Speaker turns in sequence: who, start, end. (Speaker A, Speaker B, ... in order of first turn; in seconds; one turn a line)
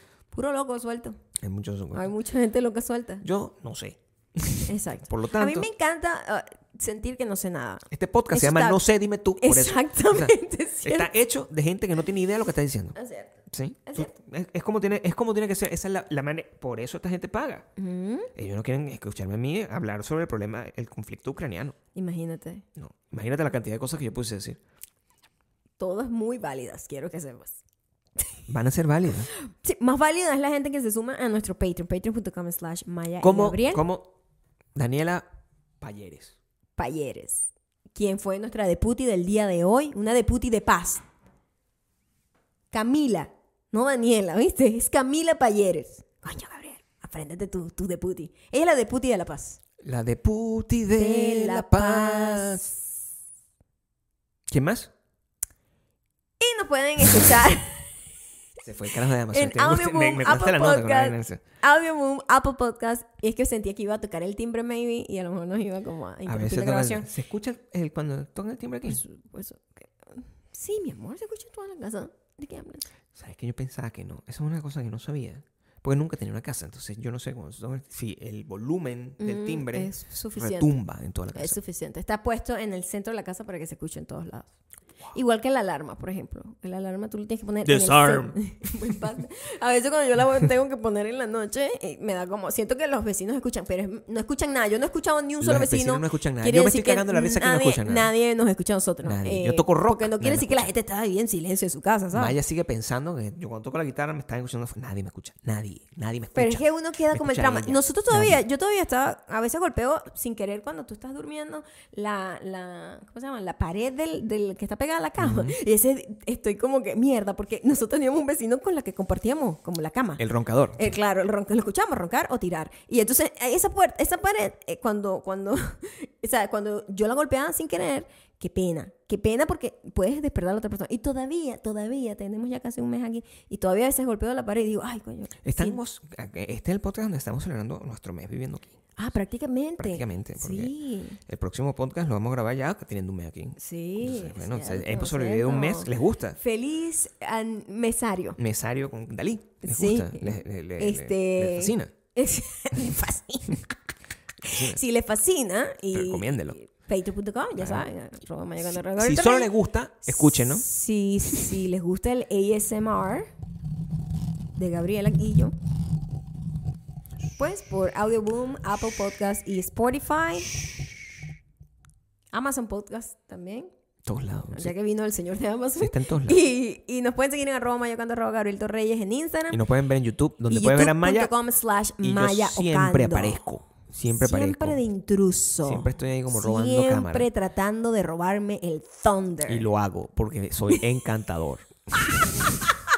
Speaker A: 0.3-1.2
Speaker B: 1.4-2.1
Speaker A: 1.9-3.2
Speaker B: 3.2-5.7
Speaker A: 4.7-8.8
Speaker B: 7.9-13.0
Speaker A: 9.4-11.1
Speaker A: 12.9-14.1
Speaker B: 13.5-17.7
Speaker A: 17.8-18.3
Speaker B: 18.3-21.8
Speaker A: 21.9-22.6
Speaker B: 22.8-24.6
Speaker A: 25.8-27.6
Speaker B: 28.5-29.3
Speaker A: 29.4-33.8
Speaker B: 33.2-34.1
Speaker B: 34.7-35.2
Speaker B: 35.8-36.3
Speaker A: 36.8-41.0
Speaker A: 42.7-49.6
Speaker B: 49.8-52.7
Speaker A: 50.9-52.8
Speaker B: 54.5-54.9
Speaker A: 56.4-57.9
Speaker B: 58.6-61.4
Speaker A: 59.3-67.1
Speaker B: 66.3-69.0
Speaker A: 68.8-72.8
Speaker B: 73.1-81.6
Speaker A: 79.2-80.8
Speaker A: 81.3-84.5
Speaker A: 85.1-102.4
Speaker B: 87.6-89.0
Speaker B: 95.4-98.1
Speaker B: 99.0-100.7
Speaker B: 102.1-108.4
Speaker A: 106.3-120.2
Speaker B: 115.2-115.6
Speaker B: 120.2-120.8
Speaker A: 120.8-135.8
Speaker B: 135.4-138.7
Speaker A: 139.0-141.2
Speaker B: 139.8-140.7
Speaker B: 141.3-146.4
Speaker A: 143.6-148.4
Speaker B: 148.4-151.9
Speaker A: 149.6-153.7
Speaker A: 154.4-159.5
Speaker B: 154.4-154.8
Speaker B: 155.9-156.6
Speaker B: 157.6-157.8
Speaker B: 158.9-160.6
Speaker A: 160.0-163.3
Speaker A: 164.6-165.5
Speaker A: 167.3-170.6
Speaker A: 172.3-173.7
Speaker B: 174.0-174.7
Speaker A: 174.5-179.6
Speaker B: 175.8-176.4
Speaker B: 179.5-181.3
Speaker A: 180.5-183.4
Speaker B: 182.0-184.8
Speaker A: 184.1-189.7
Speaker B: 185.6-187.3
Speaker B: 189.5-192.5
Speaker A: 192.2-192.7